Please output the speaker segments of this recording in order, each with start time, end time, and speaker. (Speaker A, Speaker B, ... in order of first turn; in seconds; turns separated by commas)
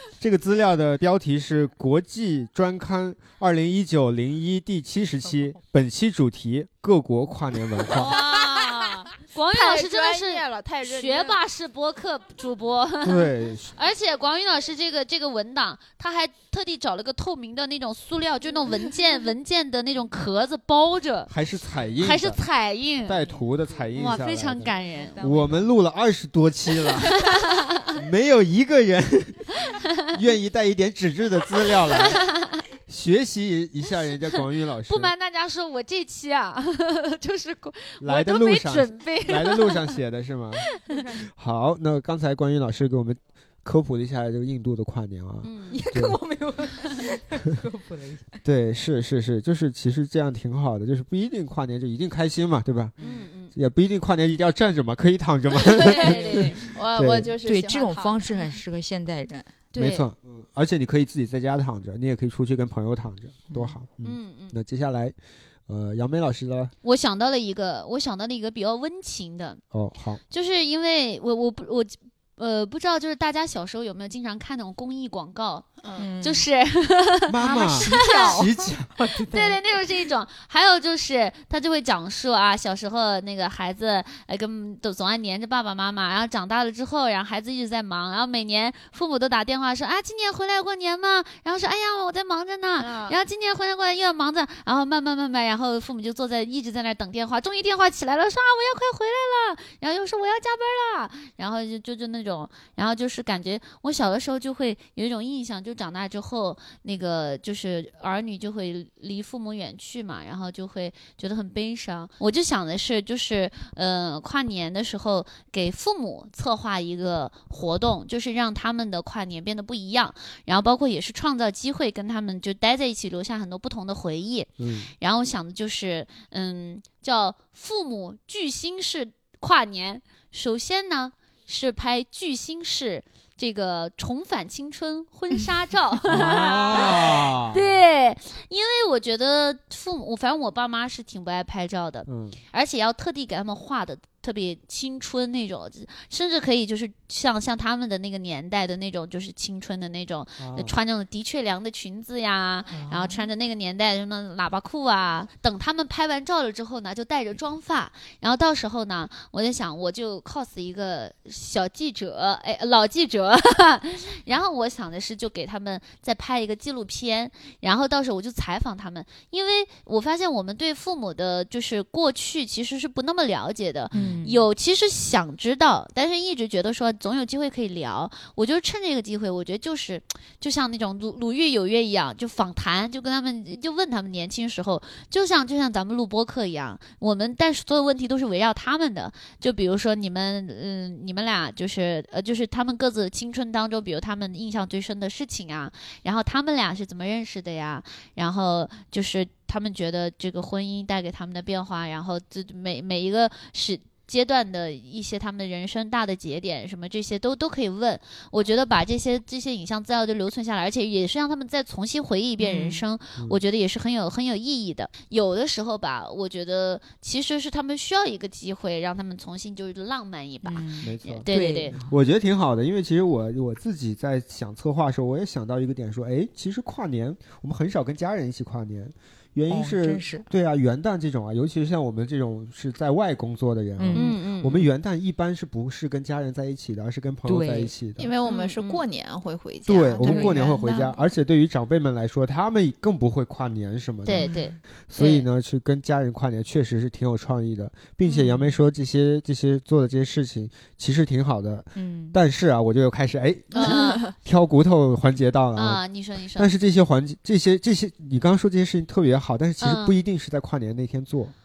Speaker A: 0.2-8.2, Speaker B: 7.9-21.3, Speaker C: 9.5-11.4, Speaker A: 13.0-13.7, Speaker A: 21.3-22.4, Speaker B: 22.0-23.2, Speaker A: 23.0-27.2, Speaker B: 23.9-25.2, Speaker D: 24.6-25.8, Speaker B: 27.1-27.9, Speaker A: 27.9-29.5, Speaker A: 30.1-32.2, Speaker B: 31.9-32.6, Speaker A: 32.9-35.1, Speaker B: 34.3-40.0, Speaker A: 38.0-40.6, Speaker D: 40.7-41.2, Speaker A: 41.3-46.2, Speaker B: 45.4-45.8, Speaker D: 45.7-48.4, Speaker A: 48.4-52.9, Speaker B: 53.0-53.5, Speaker A: 53.5-57.3, Speaker B: 55.6-56.6, Speaker C: 56.0-58.4, Speaker D: 57.4-59.5, Speaker B: 59.7-60.0, Speaker A: 59.8-65.1, Speaker D: 63.5-63.7, Speaker B: 64.0-64.5, Speaker A: 65.7-66.7, Speaker B: 66.8-69.6, Speaker A: 69.7-70.2, Speaker B: 70.3-78.4, Speaker D: 76.0-76.4, Speaker A: 77.3-78.9, Speaker D: 77.4-79.6, Speaker B: 79.3-221.8, Speaker C: 92.8-93.2, Speaker A: 124.6-124.9, Speaker A: 136.1-137.8, Speaker A: 142.1-142.4, Speaker A: 150.4-150.8, Speaker D: 152.7-153.2, Speaker D: 173.9-174.4, Speaker D: 212.4-212.8, Speaker D: 220.4-221.9, Speaker A: 220.8-238.1, Speaker D: 229.5-230.3, Speaker D: 233.8-234.1, Speaker B: 233.9-234.7, Speaker D: 237.2-237.7, Speaker C: 238.0-241.0, Speaker B: 238.2-238.8, Speaker A: 239.7-244.3, Speaker D: 240.0-240.4, Speaker B: 244.1-245.3, Speaker D: 244.2-244.5, Speaker A: 244.9-255.8, Speaker D: 251.7-252.2, Speaker C: 253.5-254.1, Speaker B: 253.6-254.0, Speaker B: 255.6-256.5, Speaker A: 256.4-261.3, Speaker B: 259.6-260.0